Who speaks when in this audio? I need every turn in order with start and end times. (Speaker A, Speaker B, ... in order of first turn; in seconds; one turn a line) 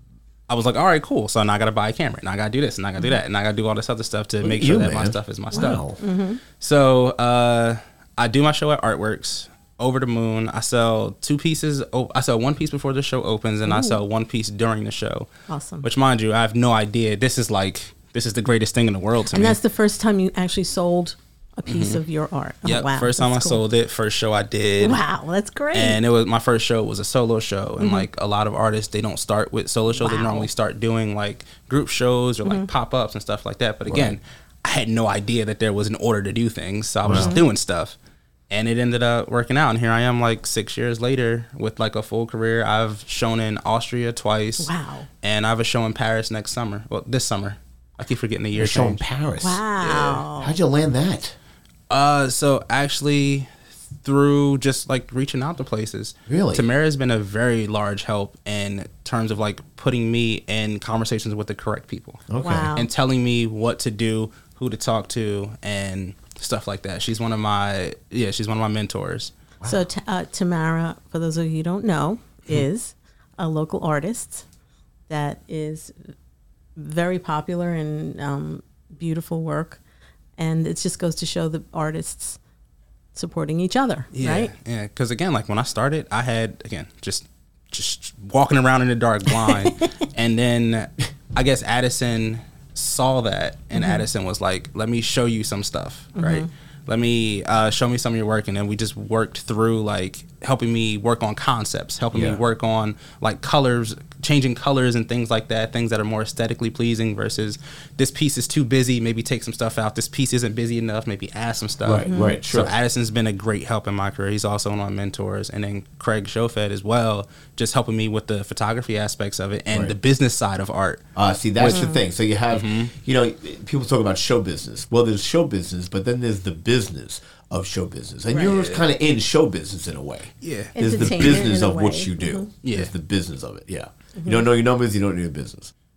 Speaker A: 0.5-5.8
Speaker B: 4.4-6.0
Speaker C: 5.5-6.4
Speaker A: 6.6-15.3
Speaker C: 13.7-14.0
Speaker C: 15.5-15.9
Speaker A: 15.8-19.6
Speaker C: 19.3-23.6
Speaker A: 21.7-22.0
Speaker A: 22.6-25.0
Speaker C: 24.8-26.0
Speaker A: 25.7-38.0
Speaker C: 27.8-28.1
Speaker C: 29.9-30.5
Speaker B: 33.9-34.2
Speaker B: 37.0-37.4
Speaker C: 37.1-37.4
Speaker A: 38.5-44.7
Speaker C: 44.6-45.1
Speaker A: 45.2-49.0
Speaker B: 48.6-49.6
Speaker C: 49.4-50.5
Speaker A: 49.8-50.2
Speaker B: 50.3-51.4
Speaker A: 51.9-53.5
Speaker A: 54.0-62.2
Speaker B: 56.3-56.7
Speaker B: 62.3-62.7
Speaker C: 62.4-62.9
Speaker A: 62.8-69.3
Speaker C: 69.7-74.5
Speaker C: 75.1-76.0
Speaker C: 76.8-79.8
Speaker C: 80.4-82.4
Speaker C: 83.2-84.5
Speaker A: 84.1-121.0
Speaker C: 89.4-89.8
Speaker C: 93.7-94.0
Speaker C: 96.2-96.5
Speaker B: 102.1-102.4
Speaker B: 111.8-112.7
Speaker C: 112.1-112.4
Speaker B: 121.2-135.7
Speaker A: 121.6-121.9
Speaker C: 121.6-122.0
Speaker A: 122.5-122.9
Speaker A: 128.3-128.9
Speaker A: 130.4-131.4
Speaker C: 130.8-132.5
Speaker A: 132.6-132.9
Speaker C: 134.2-134.4